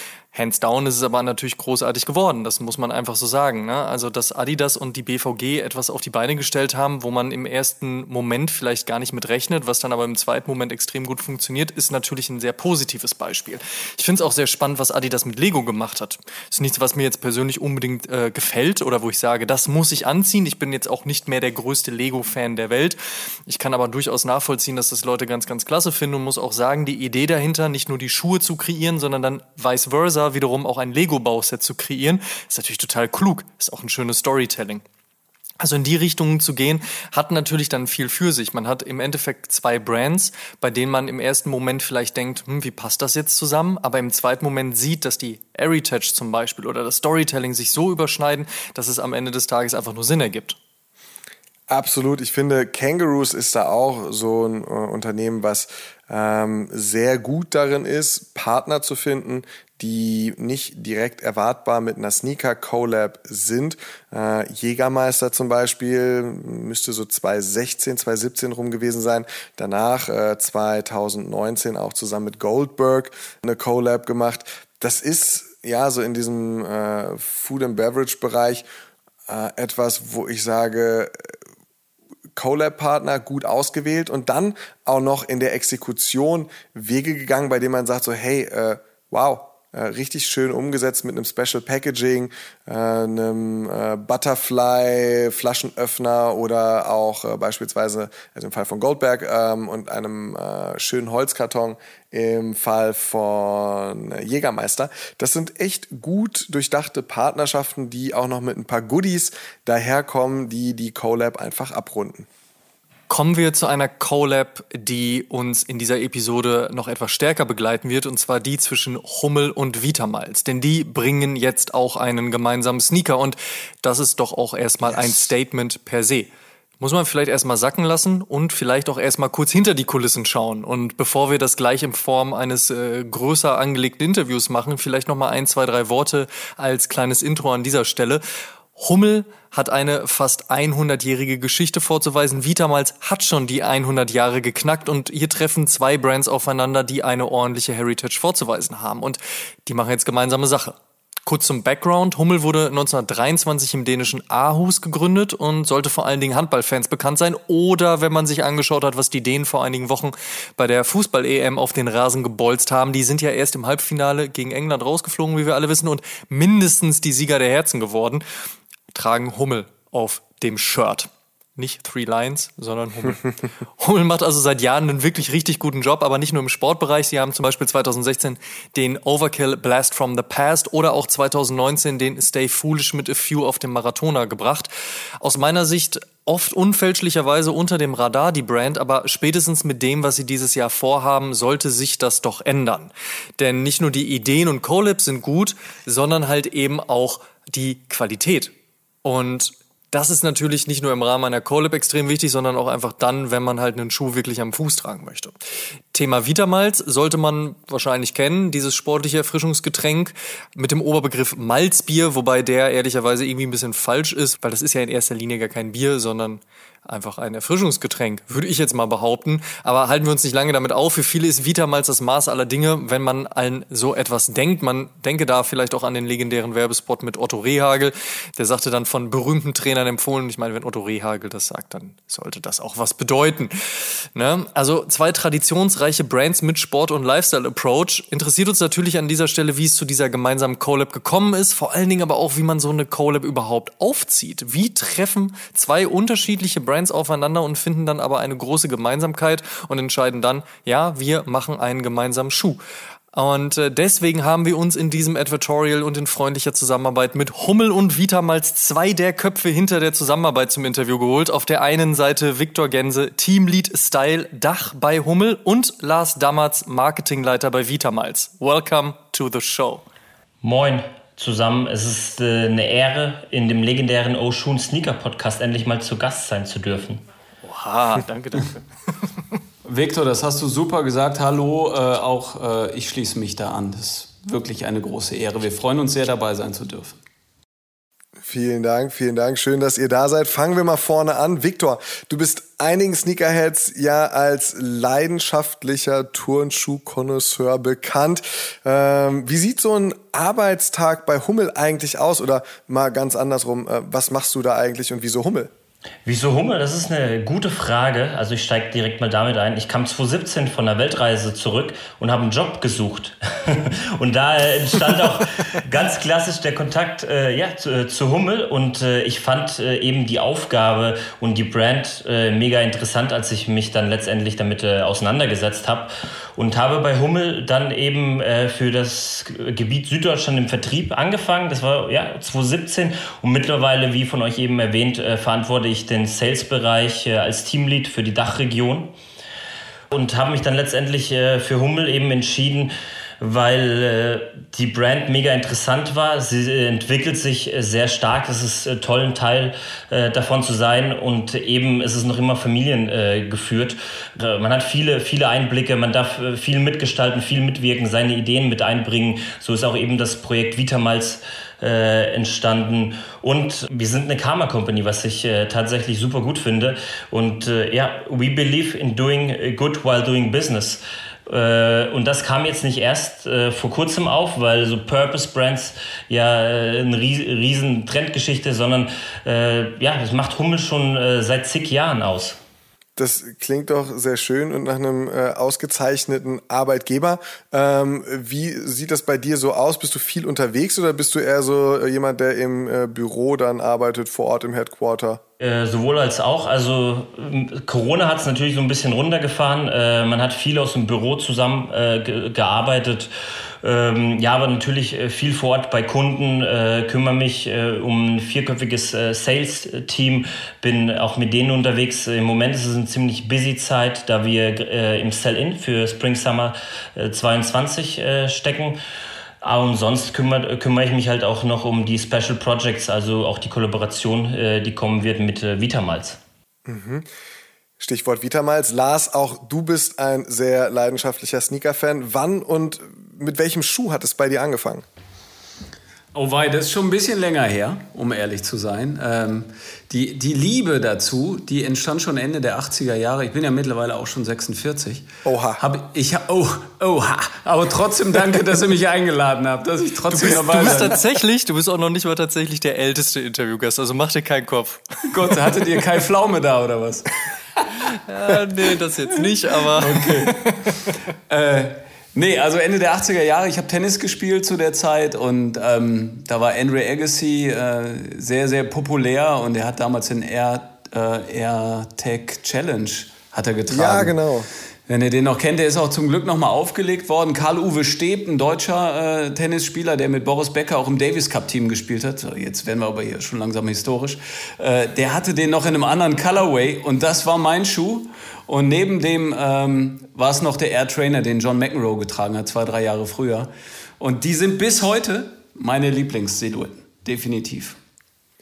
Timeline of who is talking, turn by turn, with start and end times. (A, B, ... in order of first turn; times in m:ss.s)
0:00.3-0:34.8 A
0:35.6-0:50.6 A
0:51.7-1:18.6 B
1:19.3-1:21.3 B
1:22.4-1:52.3 B
1:53.1-2:18.2 A
2:04.8-2:05.3 B
2:18.8-2:48.2 A
2:48.9-3:25.4 A
3:25.9-4:12.6 A
4:13.1-4:29.8 A
4:30.4-4:37.0 C
4:37.4-4:38.6 A
4:39.6-4:47.0 D
4:48.2-5:05.5 B
5:06.0-5:38.9 C
5:39.9-6:22.4 C
6:23.0-6:35.2 B
6:35.4-6:43.1 C
6:43.6-6:58.8 C
6:59.4-7:06.2 C
7:06.7-7:07.1 B
7:07.8-7:14.8 B
7:16.1-7:25.1 D
7:25.2-7:25.6 B
7:25.6-7:31.0 D
7:30.1-7:35.5 A
7:35.1-7:37.1 D
7:37.9-7:40.8 A
7:39.8-7:54.2 D
7:53.7-7:54.5 B
7:54.9-8:17.8 D